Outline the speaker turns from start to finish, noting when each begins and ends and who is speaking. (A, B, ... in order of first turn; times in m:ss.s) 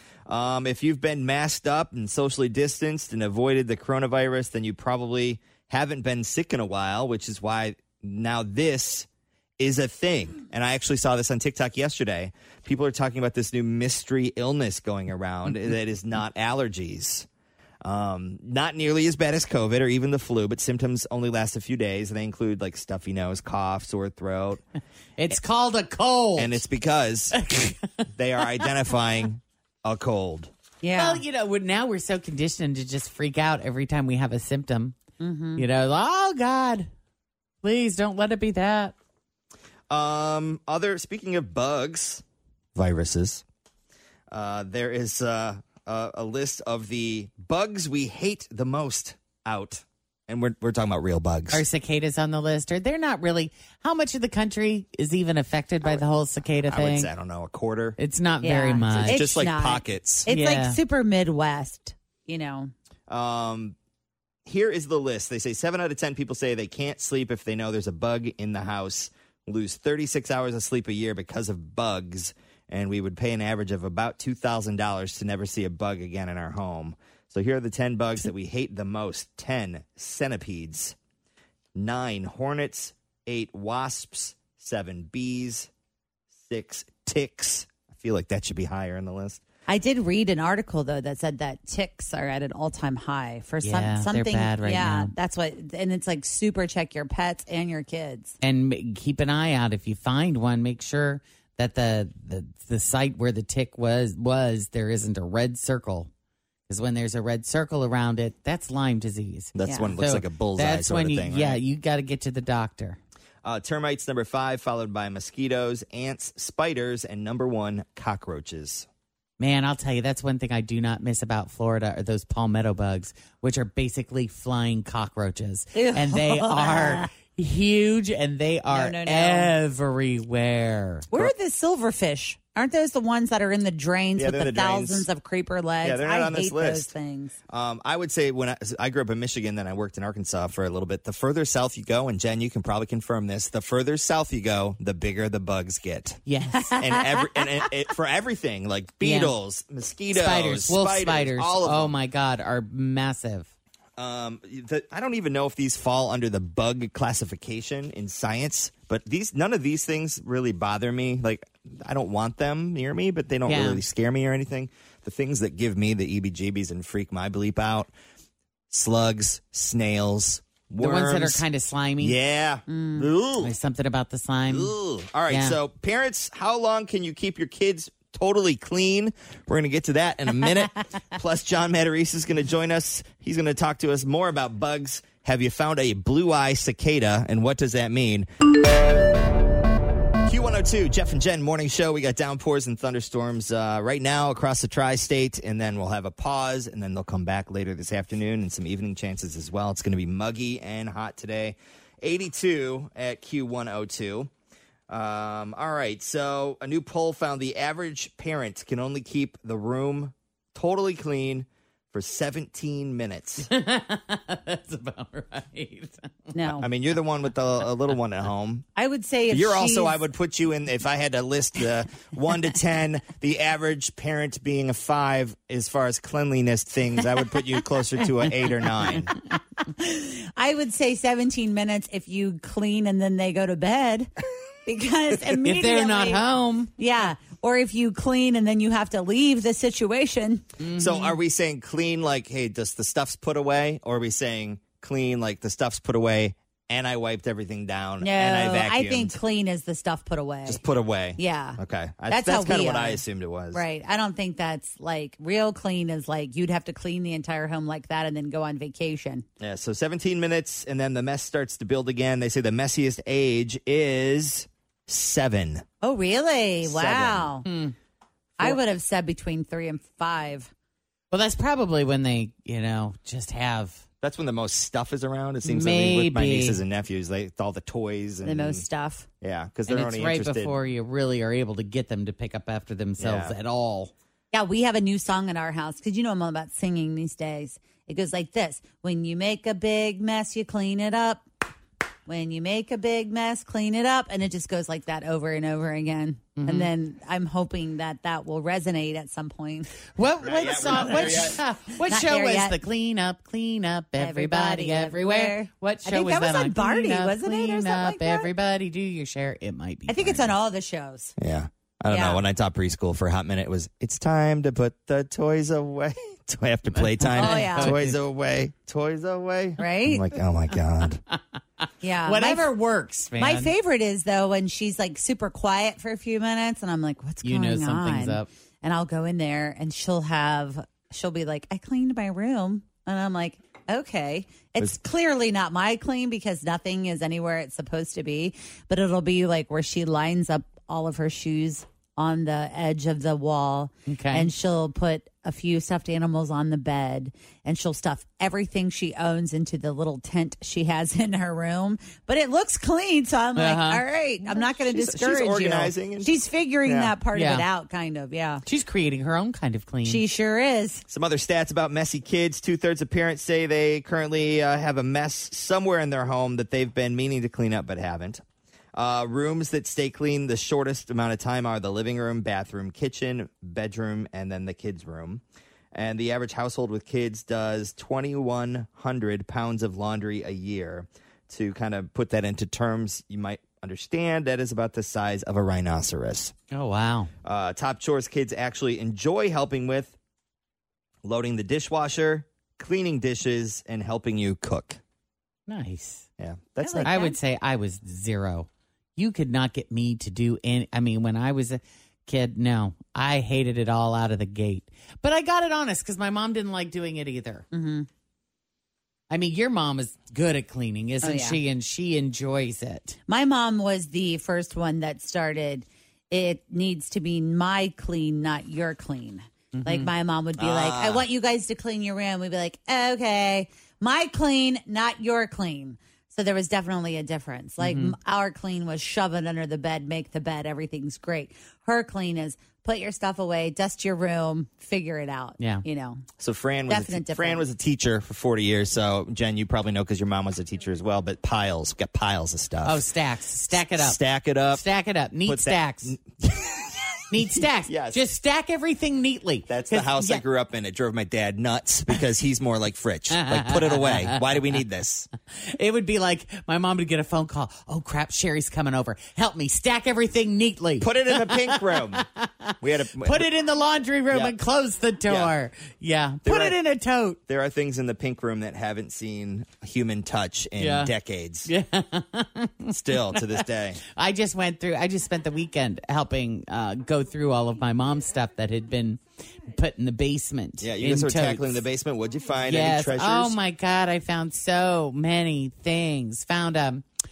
0:00.3-0:09.1 A
0:09.6-0:17.3 A
0:17.8-0:24.6 A
0:25.2-0:26.6 B
0:26.4-0:27.4 A
0:27.3-0:28.6 B
0:28.1-0:30.5 A
0:30.8-0:31.2 C
0:31.0-0:35.0 B
0:35.2-0:35.6 C
0:35.6-0:36.9 B
0:37.6-0:39.0 B
0:39.9-0:42.2 A
0:42.8-0:43.4 A
0:44.3-0:51.6 A
0:51.5-0:57.1 B
0:56.7-0:58.0 A
0:58.0-0:59.3 B
0:58.4-1:02.7 C
0:59.0-1:00.3 A
1:00.3-1:00.8 B
1:03.1-1:03.8 A
1:04.5-1:21.0 A
1:21.8-1:25.7 A
1:26.4-1:29.4 A
1:29.7-1:38.4 C
1:33.6-1:35.1 B
1:38.4-1:46.1 B
1:46.7-1:53.0 B
1:49.6-1:51.6 A
1:49.7-1:49.9 C
1:53.4-1:58.9 A
1:59.4-2:11.1 B
2:05.8-2:07.1 C
2:08.7-2:09.6 C
2:11.1-2:17.3 C
2:14.2-2:15.1 A
2:15.8-2:16.9 A
2:17.5-2:26.2 A
2:26.2-2:26.8 B
2:26.8-2:31.9 A
2:29.0-2:29.3 B
2:30.1-2:33.5 B
2:34.0-2:47.9 A
2:43.5-2:43.8 B
2:48.7-2:51.4 A
2:50.8-2:52.2 B
2:52.0-2:53.5 A
2:52.7-2:53.1 C
2:53.4-2:54.7 B
2:54.5-3:08.3 A
2:55.3-2:55.6 B
3:10.3-3:24.3 A
3:24.9-3:33.5 A
3:33.4-3:36.7 B
3:36.3-3:36.6 C
3:36.6-3:38.7 A
3:38.8-3:40.0 C
3:39.3-3:49.1 A
3:49.8-3:54.1 C
3:54.7-3:56.3 C
3:55.2-3:56.7 B
3:56.8-4:00.4 C
4:00.6-4:01.2 B
4:00.8-4:09.2 A
4:08.0-4:10.6 C
4:10.4-4:13.6 A
4:11.2-4:19.2 C
4:19.4-4:25.6 A
4:25.8-4:27.5 C
4:26.6-4:27.3 A
4:27.4-4:27.7 B
4:28.4-4:30.5 C
4:31.1-4:33.8 B
4:34.0-4:38.7 A
4:35.4-4:36.6 B
4:38.2-4:39.1 C
4:39.2-4:40.6 A
4:39.7-4:43.9 B
4:43.0-4:43.4 A
4:44.3-4:51.2 C
4:52.1-4:59.7 C
4:56.4-4:56.7 B
5:00.0-5:10.3 B
5:00.2-5:01.4 A
5:00.7-5:01.1 C
5:01.9-5:02.6 C
5:04.0-5:08.3 C
5:09.9-5:11.2 C
5:11.2-5:21.0 A
5:11.9-5:12.2 C
5:16.7-5:18.0 B
5:17.2-5:17.8 C
5:19.6-5:20.0 C
5:21.8-5:22.5 C
5:22.0-5:23.5 B
5:23.2-5:58.4 C
5:27.2-5:28.3 B
5:43.9-5:44.3 B
5:53.4-5:53.8 B
5:54.2-5:56.1 A
5:56.6-5:57.0 A
5:57.1-5:57.5 B
5:58.4-6:00.0 B
5:59.8-6:00.8 C
6:00.9-6:08.2 A
6:08.8-6:15.2 A
6:15.7-6:26.3 A
6:26.5-6:27.1 B
6:27.2-6:30.0 A
6:31.0-6:34.8 A
6:35.5-6:36.1 B
6:36.2-6:36.9 A
6:36.6-6:37.2 C
6:36.8-6:47.5 B
6:47.5-6:47.9 C
6:49.1-6:53.0 B
6:51.0-6:51.4 C
6:53.1-7:16.0 C
6:59.5-6:59.9 B
7:00.4-7:01.1 A
7:07.6-7:07.9 B
7:15.4-7:15.6 B
7:16.2-7:22.8 A
7:16.7-7:17.4 C
7:22.6-7:26.0 B
7:23.5-7:24.7 A
7:25.3-7:27.0 A
7:27.1-7:30.2 B
7:27.7-7:28.0 A
7:29.5-7:35.1 A
7:33.1-7:34.4 B
7:35.4-7:47.2 B
7:40.8-7:42.0 A
7:42.6-7:43.3 A
7:45.1-7:45.4 A
7:46.2-7:46.6 A
7:47.3-7:51.5 A
7:50.6-7:50.9 B
7:51.4-8:01.6 B
7:52.7-7:53.8 A
8:00.6-8:03.4 A
8:02.4-8:06.8 B